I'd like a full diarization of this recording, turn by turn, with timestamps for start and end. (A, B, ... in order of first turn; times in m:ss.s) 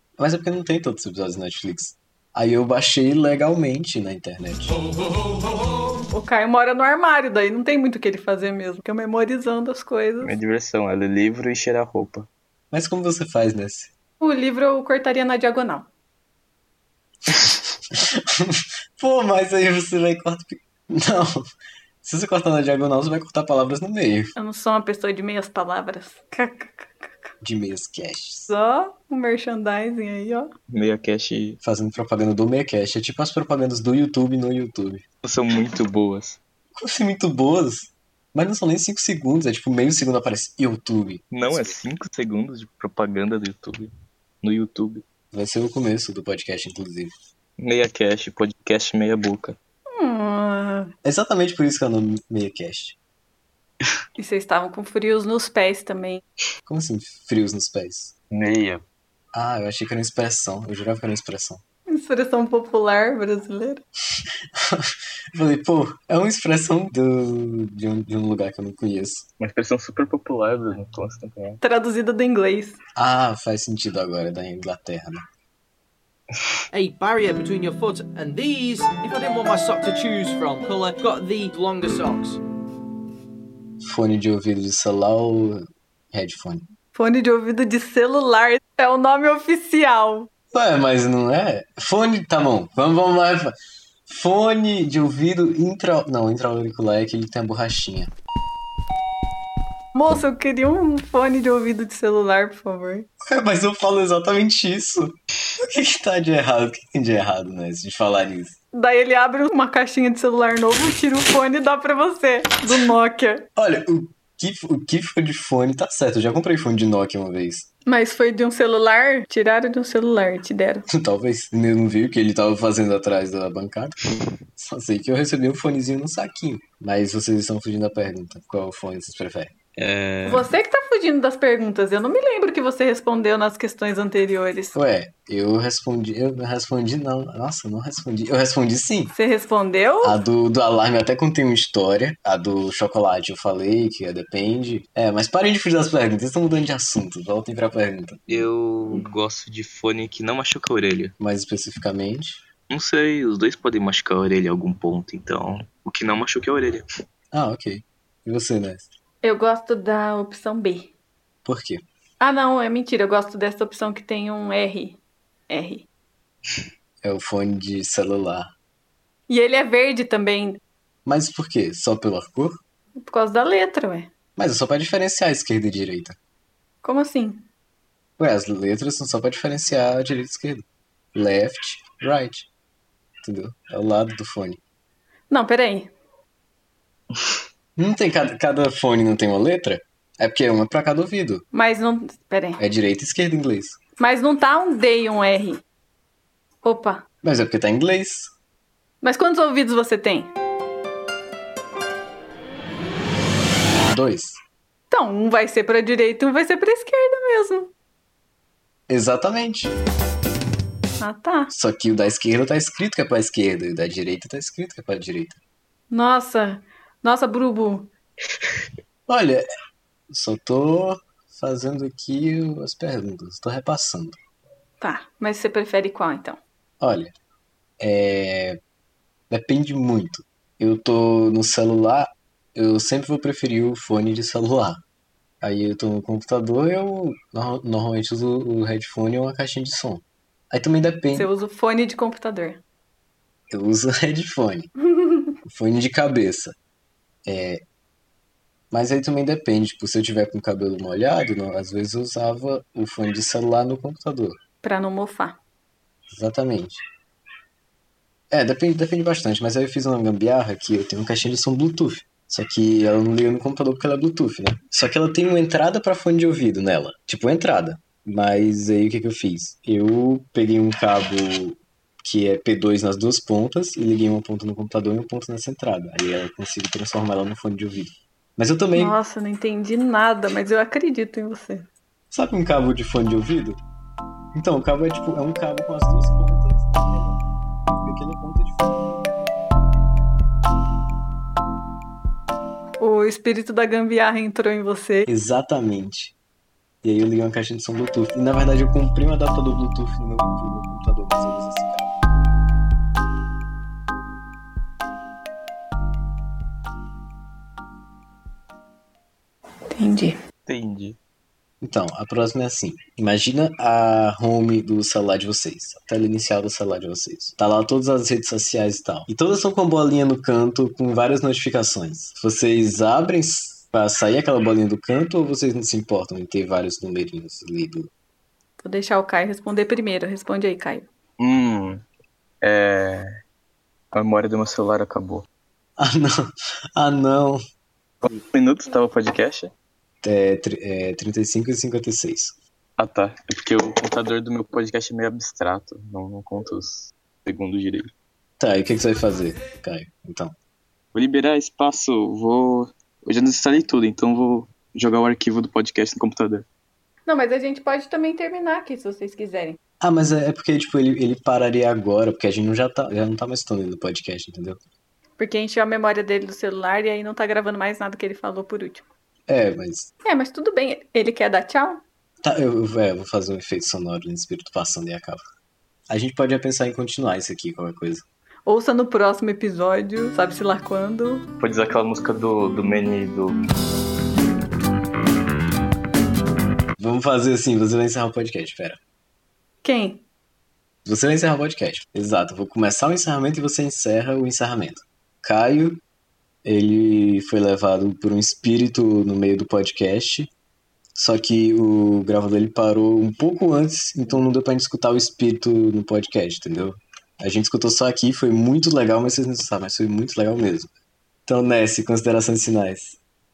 0:00.2-0:04.8 A
0:06.1-0:10.4 B
0:10.2-0:12.3 C
0:12.7-0:13.9 A
0:14.2-0:15.9 B
0:17.9-0:21.4 A
0:22.0-0:24.4 A
0:24.4-0:27.3 B
0:27.4-0:28.5 A
0:28.5-0:30.5 B
0:30.7-0:31.6 C
0:31.6-0:35.0 A
0:35.2-0:36.4 C
0:36.8-0:41.8 A
0:41.3-0:43.9 C
0:44.4-0:45.0 C
0:45.3-0:47.1 A
0:47.6-0:49.6 C
0:49.9-0:50.9 B
0:51.0-0:53.0 A
0:54.2-0:56.2 B
0:56.7-0:58.1 A
0:58.3-0:58.8 C
0:59.3-1:01.6 A
1:01.9-1:03.8 B
1:04.6-1:09.3 A
1:09.4-1:11.6 C
1:11.6-1:12.8 B
1:13.0-1:15.2 A
1:16.7-1:22.4 D
1:23.8-1:26.7 A
1:27.0-1:30.3 B
1:30.5-1:33.5 A
1:34.1-1:38.1 A
1:39.9-1:43.1 B
1:43.2-1:48.6 A
1:48.7-1:53.5 B
1:53.6-1:57.7 A
1:57.9-2:00.9 B
2:00.9-2:04.0 A
2:04.6-2:09.5 A
2:09.8-2:10.5 C
2:10.2-2:14.8 B
2:14.7-2:19.1 A
2:19.1-2:20.2 B
2:20.0-2:28.5 A
2:28.3-2:31.2 C
2:31.2-2:32.4 A
2:32.7-2:36.9 C
2:37.3-2:38.9 A
2:39.2-2:40.9 B
2:41.4-2:41.8 A
2:42.2-2:45.9 B
2:47.0-2:48.5 A
2:49.3-2:50.6 B
2:51.1-2:52.6 A
2:53.0-2:54.1 B
2:54.4-2:56.2 A
2:56.8-2:57.5 B
2:58.2-3:02.5 A
3:03.2-3:04.6 A
3:05.3-3:05.9 B
3:07.8-3:11.4 A
3:11.5-3:12.6 B
3:12.6-3:13.8 A
3:14.0-3:15.6 B
3:16.6-3:17.0 B
3:17.2-3:18.3 A
3:19.0-3:20.3 B
3:23.8-3:24.4 A
3:24.9-3:27.7 B
3:28.9-3:29.7 A
3:31.0-3:31.5 B
3:31.5-3:35.4 A
3:35.9-3:37.9 B
3:39.1-3:39.4 A
3:40.1-3:44.2 A
3:44.8-3:46.4 B
3:46.8-3:47.1 A
3:47.8-3:48.6 A
3:49.3-3:54.8 A
3:55.4-4:01.3 A
4:01.1-4:02.6 B
4:03.5-4:04.7 A
4:05.0-4:05.3 B
4:05.4-4:06.6 A
4:07.2-4:07.6 A
4:08.7-4:14.4 A
4:14.6-4:15.4 B
4:16.1-4:16.8 A
4:18.3-4:39.0 A
4:38.8-4:41.7 B
4:42.1-4:43.6 A
4:44.3-4:47.2 A
4:47.8-4:49.3 A
4:52.8-4:55.1 B
4:55.1-4:56.2 A
4:56.8-5:01.9 A
5:09.7-5:10.2 B
5:10.5-5:11.0 C
5:11.6-5:27.9 A
5:28.6-5:30.9 B
5:31.2-5:31.8 C
5:32.4-5:33.1 C
5:33.9-5:35.3 C
5:35.8-5:37.4 A
5:38.0-5:39.5 C
5:40.0-5:42.4 A
5:42.8-5:47.9 C
5:48.4-5:50.4 A
5:50.9-5:56.4 C
5:57.1-5:59.6 B
5:59.8-6:04.6 A
6:05.2-6:08.8 B
6:09.3-6:09.9 A
6:10.0-6:11.8 B
6:12.2-6:15.2 A
6:15.9-6:18.0 A
6:18.5-6:21.3 B
6:21.4-6:23.4 C
6:26.8-6:28.8 A
6:29.6-6:30.0 B
6:30.8-6:35.8 A
6:36.4-6:40.3 A
6:41.0-6:50.7 A
6:51.3-6:53.0 A